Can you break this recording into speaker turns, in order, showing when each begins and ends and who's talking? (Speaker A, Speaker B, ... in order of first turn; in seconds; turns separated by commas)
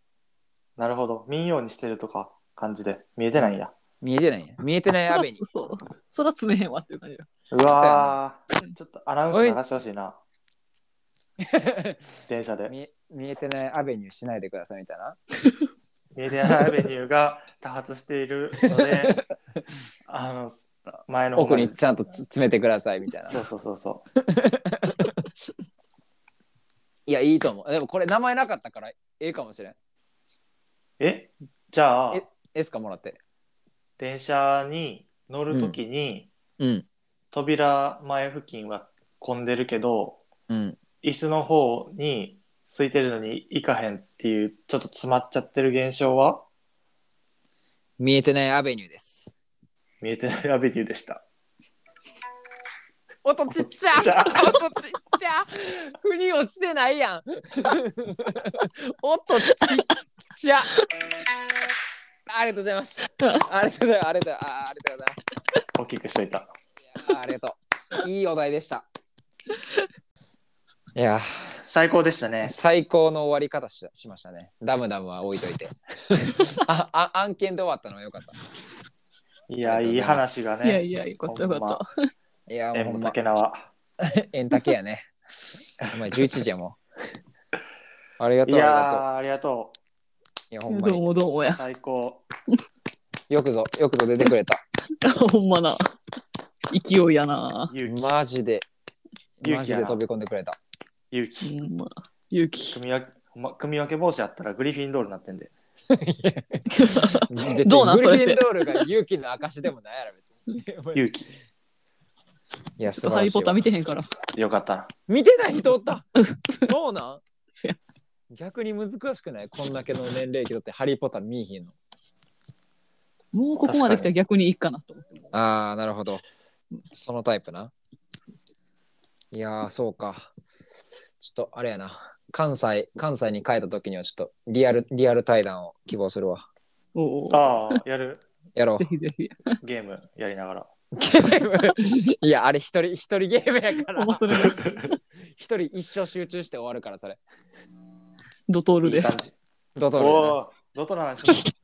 Speaker A: 0.8-3.7, Speaker B: 4.0-5.4, Speaker C: 5.1-7.3, Speaker A: 7.5-10.2, Speaker B: 7.7-8.2, Speaker B: 9.3-9.6, Speaker B: 11.4-15.2, Speaker A: 12.3-12.8, Speaker A: 16.1-19.2, Speaker B: 18.7-19.3, Speaker A: 20.1-21.8, Speaker B: 21.4-23.4, Speaker A: 23.3-24.0, Speaker B: 24.3-25.2, Speaker B: 27.1-29.8, Speaker A: 31.0-32.2, Speaker B: 32.1-33.2, Speaker A: 34.0-36.3, Speaker B: 35.5-35.8, Speaker B: 36.6-36.9, Speaker A: 37.3-40.2, Speaker B: 40.5-40.8, Speaker A: 41.0-46.5, Speaker B: 48.0-49.4, Speaker A: 50.0-51.2, Speaker B: 53.2-60.7, Speaker A: 53.6-54.6, Speaker C: 59.4-59.8, Speaker B: 62.3-65.3, Speaker A: 65.7-66.5, Speaker B: 66.9-68.9, Speaker B: 71.0-71.6, Speaker A: 71.6-72.5, Speaker B: 72.4-78.4, Speaker A: 79.5-81.8, Speaker B: 79.6-80.6, Speaker C: 80.6-81.9, Speaker B: 82.5-83.2, Speaker A: 82.7-83.7, Speaker B: 84.0-85.1, Speaker B: 85.9-86.8, Speaker B: 88.2-89.0, Speaker A: 88.5-89.8, Speaker B: 90.5-91.2, Speaker C: 90.7-91.6, Speaker A: 91.5-92.2, Speaker B: 93.3-94.6, Speaker C: 95.0-95.8, Speaker C: 96.7-97.7, Speaker A: 97.7-98.1, Speaker B: 97.8-98.7, Speaker B: 99.4-100.6, Speaker A: 99.4-100.0, Speaker A: 101.1-101.6, Speaker C: 101.4-102.8, Speaker A: 102.7-105.5, Speaker B: 105.9-111.1, Speaker C: 106.7-108.9, Speaker A: 110.9-111.3, Speaker B: 112.8-113.7, Speaker C: 112.8-114.1, Speaker A: 114.3-114.9, Speaker B: 115.1-117.2, Speaker C: 116.2-116.7, Speaker B: 118.3-121.7, Speaker C: 123.3-125.3, Speaker A: 123.6-124.1, Speaker B: 125.3-126.2, Speaker B: 126.9-127.7, Speaker B: 129.3-130.3, Speaker B: 131.2-136.4, Speaker C: 136.9-137.8, Speaker A: 137.3-138.2, Speaker B: 138.6-138.9, Speaker C: 138.8-139.6, Speaker A: 139.6-140.7, Speaker B: 140.9-147.2, Speaker C: 143.8-144.7, Speaker A: 144.4-144.9, Speaker C: 148.5-149.2, Speaker A: 148.8-149.4, Speaker B: 149.8-150.4, Speaker A: 149.9-151.5